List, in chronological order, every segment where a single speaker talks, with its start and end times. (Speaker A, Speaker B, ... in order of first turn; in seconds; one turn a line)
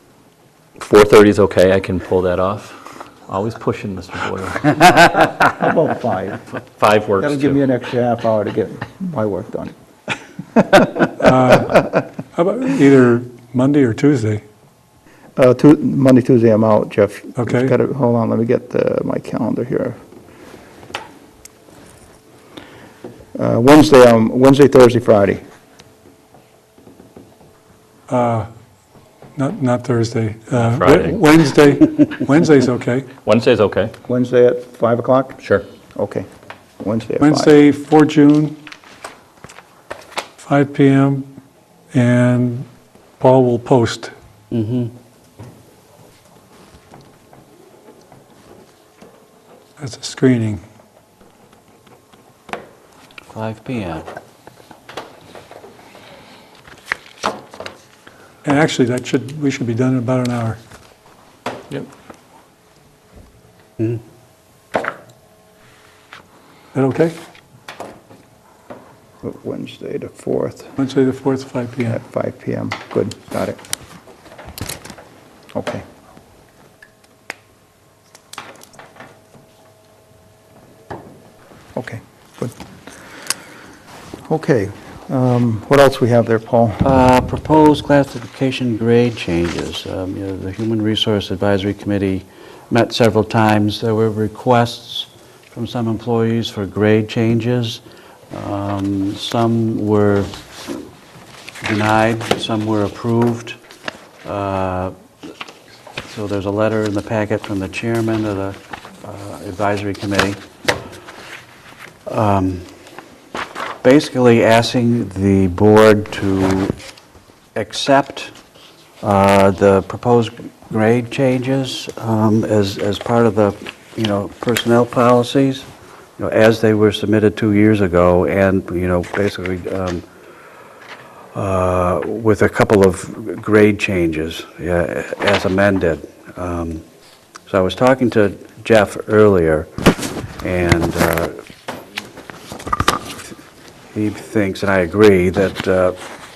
Speaker A: 0.8-5.3
Speaker B: 5.4-6.4
Speaker A: 6.7-7.6
Speaker B: 7.2-9.7
Speaker B: 10.5-11.1
Speaker C: 11.2-14.4
Speaker B: 15.4-20.0
Speaker C: 17.4-17.7
Speaker B: 23.3-25.4
Speaker C: 28.1-28.5
Speaker C: 29.4-33.1
Speaker A: 30.6-31.2
Speaker A: 33.2-33.9
Speaker B: 34.0-35.4
Speaker A: 35.4-35.6
Speaker B: 35.9-36.3
Speaker B: 36.8-37.5
Speaker C: 37.2-38.6
Speaker C: 40.4-41.3
Speaker C: 41.9-42.7
Speaker C: 43.2-44.1
Speaker D: 44.5-44.9
Speaker C: 49.8-50.6
Speaker D: 53.3-54.0
Speaker C: 58.4-60.6
Speaker C: 66.7-67.2
Speaker B: 69.2-70.7
Speaker C: 70.8-72.0
Speaker B: 71.9-73.6
Speaker B: 75.5-75.8
Speaker B: 81.8-82.5
Speaker B: 84.3-86.9
Speaker D: 86.8-100.4
Speaker D: 101.6-103.6
Speaker D: 104.2-104.9
Speaker D: 106.0-110.4
Speaker D: 112.1-112.7
Speaker D: 113.8-116.7
Speaker D: 117.5-118.3
Speaker D: 119.0-130.0
Speaker D: 131.3-136.8
Speaker D: 137.4-139.7
Speaker D: 140.4-141.3
Speaker D: 143.9-145.9